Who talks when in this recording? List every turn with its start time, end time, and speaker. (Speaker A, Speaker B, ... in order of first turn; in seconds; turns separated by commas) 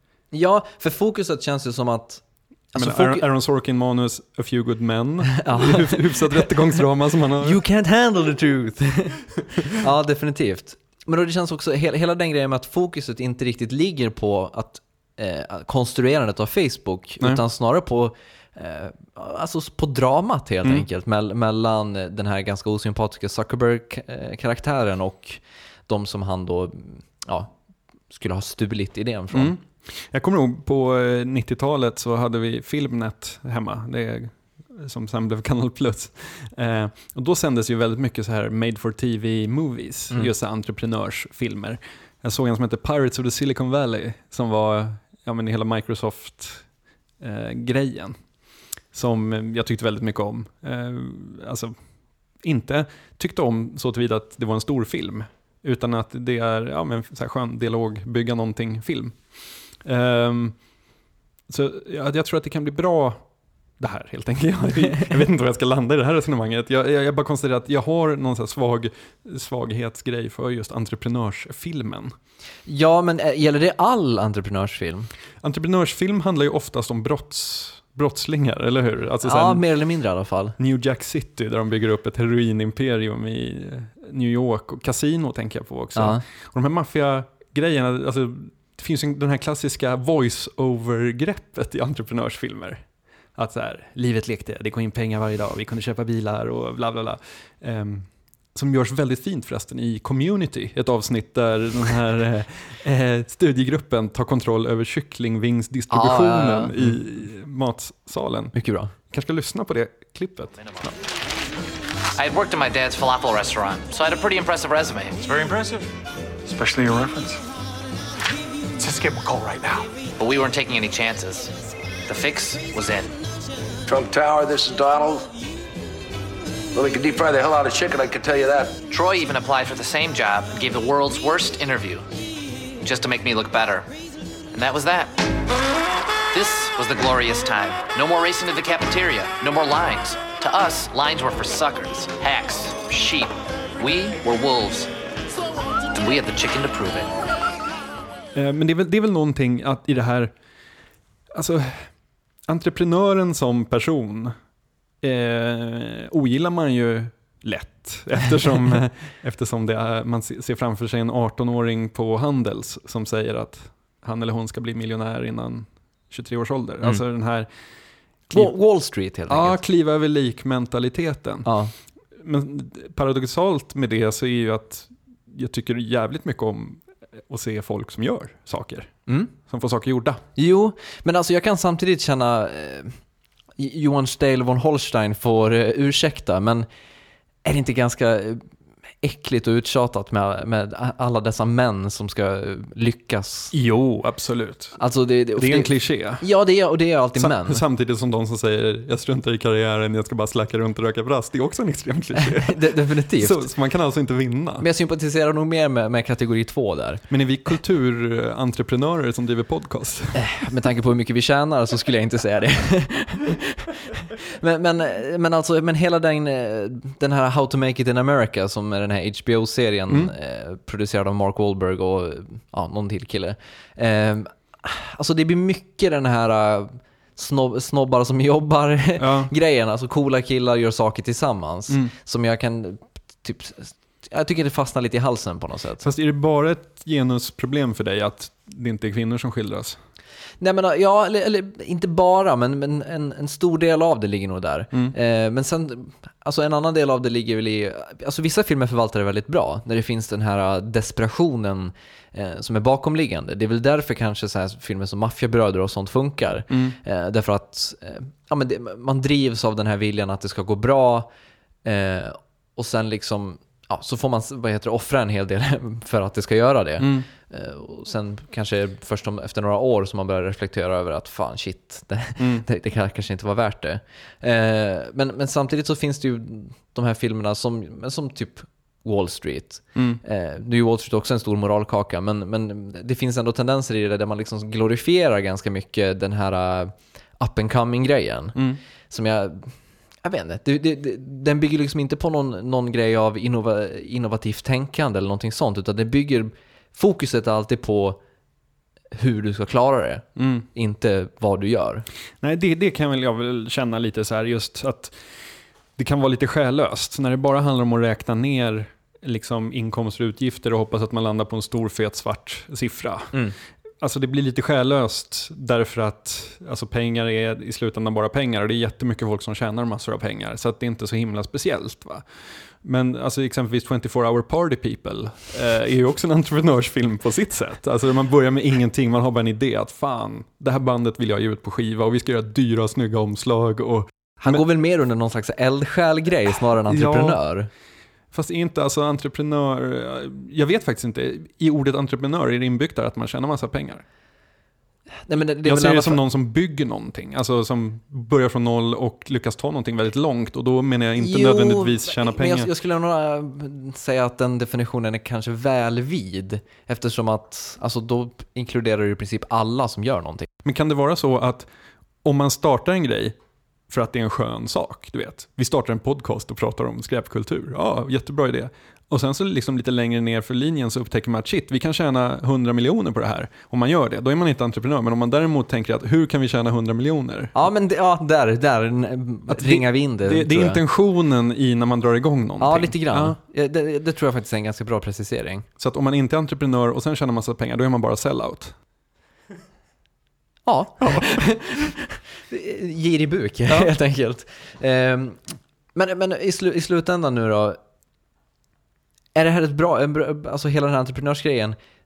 Speaker A: 0.3-3.2, Speaker B: 2.8-7.6, Speaker A: 5.4-6.5, Speaker A: 7.4-27.6, Speaker A: 28.1-29.6, Speaker B: 29.3-46.7, Speaker B: 47.2-48.2, Speaker B: 48.9-51.7, Speaker B: 52.4-60.6, Speaker B: 61.5-63.2, Speaker B: 63.8-72.1, Speaker A: 72.7-75.1, Speaker B: 75.4-79.6, Speaker A: 79.2-80.5, Speaker B: 80.6-111.0, Speaker A: 86.0-86.2, Speaker A: 105.9-107.0, Speaker A: 108.5-108.9, Speaker C: 112.2-115.2, Speaker D: 115.2-115.9, Speaker D: 116.4-117.4, Speaker D: 118.8-119.9, Speaker C: 120.2-121.5, Speaker C: 122.1-123.1, Speaker E: 123.9-125.3, Speaker E: 126.7-128.8, Speaker C: 128.9-132.1, Speaker C: 132.8-133.9, Speaker C: 134.5-135.1, Speaker C: 136.3-144.9, Speaker C: 145.9-147.1, Speaker B: 148.3-150.3, Speaker B: 151.3-151.9, Speaker B: 152.5-154.3, Speaker B: 155.0-167.5, Speaker A: 168.3-169.6, Speaker B: 169.3-171.5, Speaker A: 171.4-171.7, Speaker B: 172.2-180.2, Speaker A: 179.1-179.3, Speaker A: 180.3-182.9, Speaker A: 183.6-186.7, Speaker A: 187.4-188.4, Speaker A: 189.0-193.5, Speaker B: 193.5-194.8, Speaker A: 194.8-197.6, Speaker B: 195.3-196.2, Speaker B: 197.2-204.7, Speaker A: 202.4-203.4, Speaker A: 204.6-207.0, Speaker B: 207.1-210.4, Speaker A: 210.1-235.8, Speaker B: 229.0-229.3, Speaker B: 235.8-239.8, Speaker A: 240.4-261.1, Speaker B: 256.5-256.8, Speaker A: 261.6-288.4, Speaker B: 266.8-267.1, Speaker B: 272.2-272.4, Speaker B: 279.7-280.0, Speaker B: 288.3-288.6, Speaker A: 288.9-298.0, Speaker A: 298.9-301.9, Speaker B: 300.2-300.4, Speaker B: 302.2-313.1, Speaker B: 313.8-334.4, Speaker A: 334.2-337.5, Speaker B: 336.7-337.2, Speaker B: 338.1-343.8, Speaker A: 345.1-346.0, Speaker B: 345.4-352.5, Speaker A: 351.0-360.3, Speaker B: 360.4-361.5, Speaker B: 362.0-363.1, Speaker B: 363.7-377.3, Speaker A: 377.3-380.6, Speaker B: 379.3-383.2, Speaker A: 382.4-385.5, Speaker B: 385.6-388.5, Speaker A: 390.4-395.2, Speaker B: 390.8-391.1, Speaker A: 395.7-397.6, Speaker A: 399.1-401.6